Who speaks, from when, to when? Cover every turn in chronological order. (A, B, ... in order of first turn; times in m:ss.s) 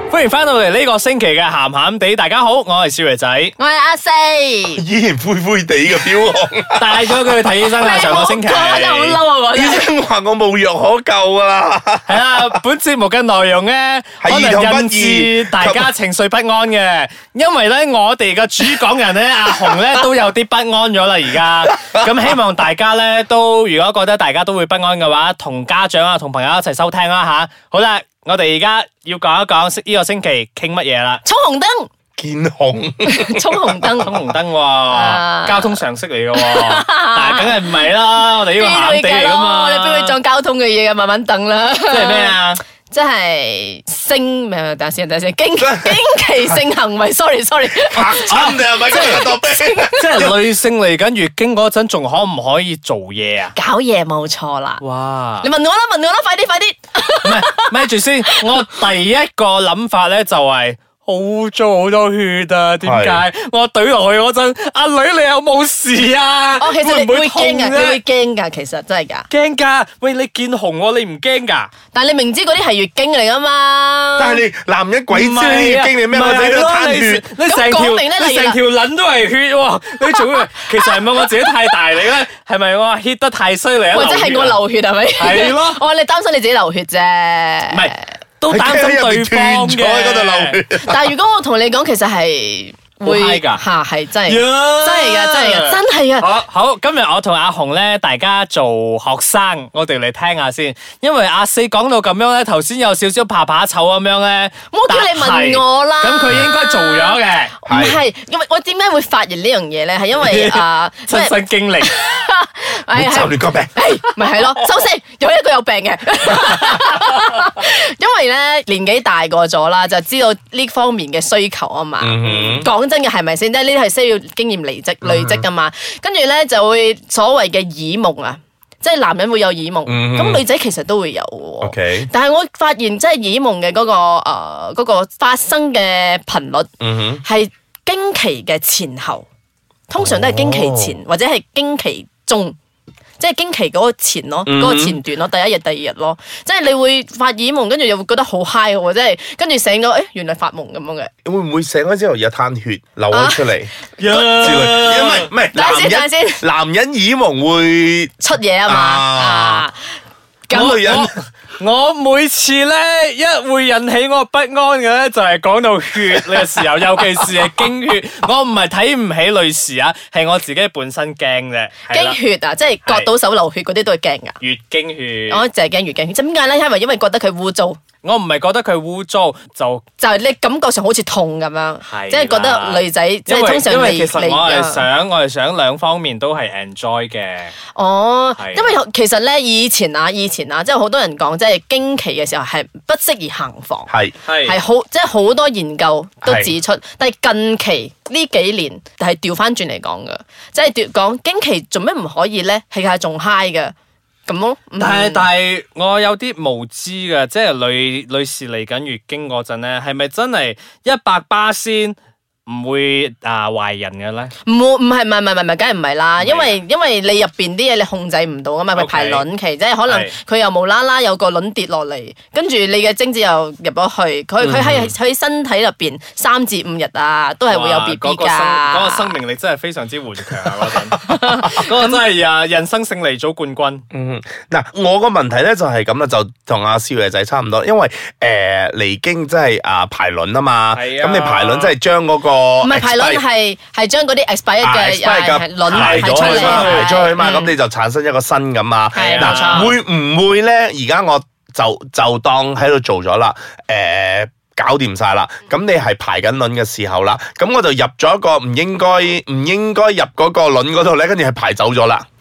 0:00.1-0:03.5 A
0:03.6-0:04.8 B
0:04.8-0:07.0 C
0:06.8-0:09.2 A
0:07.8-0:09.9 B
0:09.5-0:12.4 C
0:12.1-0:31.2 A
0:14.2-0:15.9 C
0:31.2-0:31.9 B
0:32.2-0:33.9 C
0:33.0-0:34.2 B
0:34.0-0:40.2 A
0:34.9-0:35.8 B
0:36.3-0:37.7 B
0:38.4-0:42.4 B
0:41.9-0:42.6 A
0:42.9-0:48.3 B
0:45.6-0:46.0 C
0:47.7-0:50.4 C
0:48.3-0:49.2 A
0:48.9-0:50.2 B
0:49.9-0:53.5 A
0:53.5-0:54.8 B
0:54.8-0:55.5 A
0:55.4-0:57.7 B
0:57.2-1:08.0 A
1:02.8-1:03.2 C
1:06.6-1:09.3 B
1:09.3-1:11.7 A
1:11.9-1:14.4 B
1:14.2-1:17.2 C
1:15.1-1:24.6 A
1:17.4-1:18.6 B
1:23.9-1:28.0 B
1:25.2-1:25.8 A
1:27.7-1:30.6 A
1:28.5-1:31.0 C
1:30.8-1:36.3 B
1:33.0-1:33.6 A
1:34.3-1:47.5 A
1:44.7-2:16.7 B
1:47.7-1:48.0 C
1:50.2-1:51.9 A
1:52.9-1:53.8 C
2:02.0-2:02.7 C
2:05.0-2:05.4 C
2:09.8-2:10.4 C
2:11.6-2:12.1 C
2:16.8-2:17.2 C
2:17.2-2:19.2 B
2:19.9-2:22.5 B
2:20.0-2:21.0 C
2:23.2-2:31.1 B
2:24.4-2:25.0 C
2:31.2-2:33.7 C
2:33.1-2:33.5 B
2:34.0-2:35.3 A
2:34.1-2:34.4 B
2:34.3-2:38.1 C
2:35.5-2:36.4 B
2:38.2-2:39.9 B
2:38.6-2:39.7 C
2:40.5-2:40.8 B
2:40.5-2:41.1 C
2:40.5-2:52.2 A
2:51.9-2:54.3 B
2:54.4-2:55.4 A
2:55.3-2:57.8 B
2:58.0-2:59.8 A
3:00.0-3:04.8 B
3:01.8-3:07.5 A
3:07.7-3:13.9 B
3:08.4-3:08.8 A
3:13.9-3:14.1 C
3:14.2-3:14.6 A
3:14.4-3:23.7 B
3:16.2-3:16.5 C
3:24.2-3:25.3 B
3:24.8-3:32.0 A
3:32.5-3:34.3 A
3:34.4-3:49.1 B
3:36.2-3:36.6 A
3:38.7-3:39.2 A
3:39.9-3:40.1 A
3:44.4-3:44.9 C
3:47.5-3:53.8 A
3:51.0-3:51.9 B
3:53.9-4:03.2 C
4:00.7-4:01.7 A
4:02.6-4:07.5 B
4:04.6-4:22.0 C
4:05.7-4:06.9 A
4:08.9-4:09.7 B
4:09.0-4:09.7 A